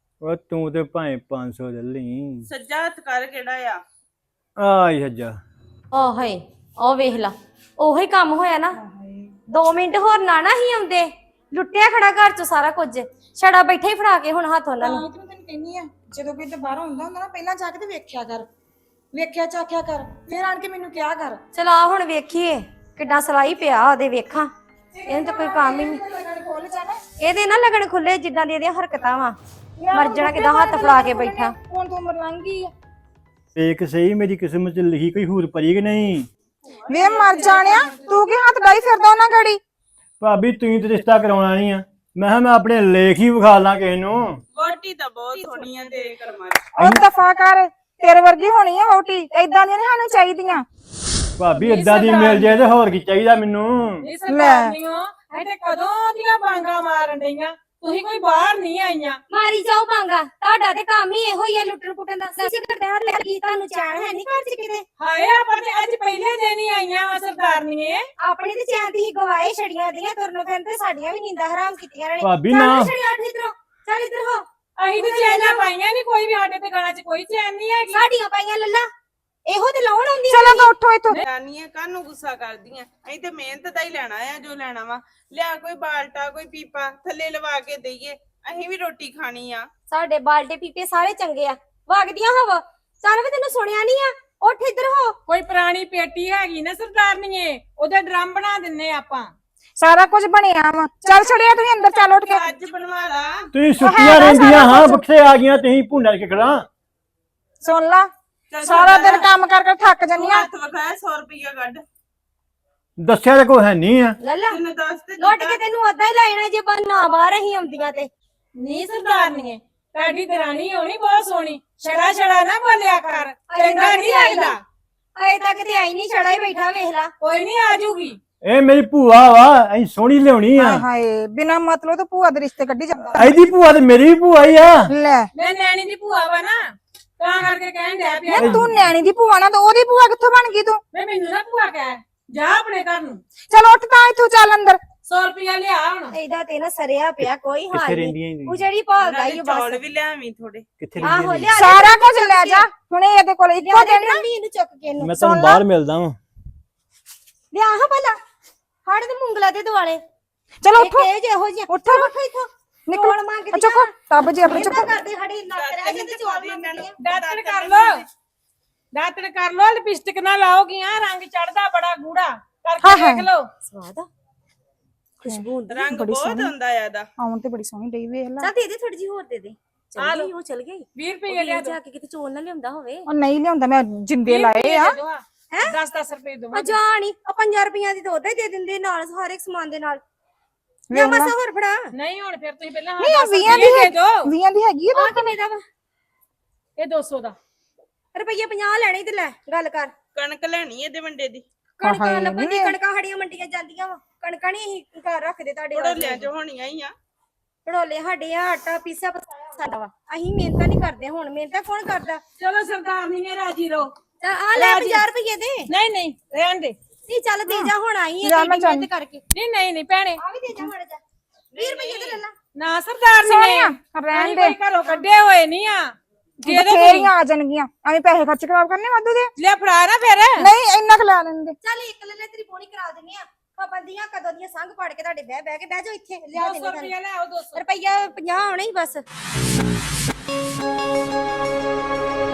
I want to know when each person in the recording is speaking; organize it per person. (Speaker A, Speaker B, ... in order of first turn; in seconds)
Speaker A: 0.2-2.5, 4.6-5.4, 33.6-36.3, 40.2-44.4, 51.4-54.1, 72.2-72.9, 103.5-106.7, 113.0-114.2, 128.4-130.8, 133.2-134.9, 138.4-138.9, 147.7-148.7, 150.8-151.5, 155.0-156.2
Speaker B: 2.5-3.8, 36.8-38.5, 44.5-46.7, 81.2-89.7, 102.2-103.5, 108.5-109.3, 110.2-111.8, 114.5-115.6, 149.0-150.6, 165.5-168.1, 175.7-177.1, 200.2-201.4, 205.7-206.9, 221.6-222.2
Speaker C: 5.9-8.8, 9.5-15.0, 21.6-24.5, 25.1-26.0, 27.2-29.4, 29.9-31.6, 59.3-64.8, 68.2-74.4, 75.0-75.6, 77.9-78.9, 79.5-80.7, 89.9-95.2, 114.2-114.5, 115.2-118.1, 123.5-124.5, 125.2-127.1, 146.1-149.8, 151.0-152.7, 153.6-155.2, 157.5-158.2, 158.9-160.0, 160.8-163.9, 164.5-166.9, 173.7-174.1, 175.2-175.9, 178.4-183.0, 186.5-190.0, 190.9-191.9, 195.0-195.6, 198.2-199.9, 201.8-206.3, 207.7-212.2, 214.2-215.7, 217.1-219.2, 220.2-221.0, 221.6-222.3, 231.6-236.9, 237.6-239.0
Speaker D: 8.7-9.4, 14.8-18.5, 19.1-21.4, 25.0-27.0, 29.8-32.7, 36.9-39.6, 46.7-50.6, 54.3-54.8, 80.3-81.2, 99.8-102.5, 103.8-105.0, 107.6-108.1, 108.6-110.5, 130.6-133.4, 134.9-135.3, 138.3-140.8, 143.5-144.8, 151.5-154.3, 155.2-155.6, 160.6-161.1, 161.7-162.2, 162.9-165.0, 172.8-173.3, 175.2-176.5, 177.2-178.5, 183.1-185.0, 190.9-191.3, 193.0-195.3, 201.8-202.8, 217.4-218.9, 223.2-224.6, 226.5-229.3, 230.4-231.6
Speaker E: 51.5-52.7, 54.0-59.2, 65.0-68.0, 74.8-78.0, 95.3-99.3, 118.6-124.6, 127.2-128.2, 135.3-138.6, 140.9-143.2, 145.1-146.2, 166.9-168.1, 168.9-173.5, 180.0-180.3, 180.9-181.8, 184.2-186.8, 191.9-194.3, 196.8-197.4, 212.4-213.9, 214.6-215.1, 215.7-216.8, 219.3-220.2, 222.6-225.9, 226.4-227.1, 229.4-230.5, 236.3-237.6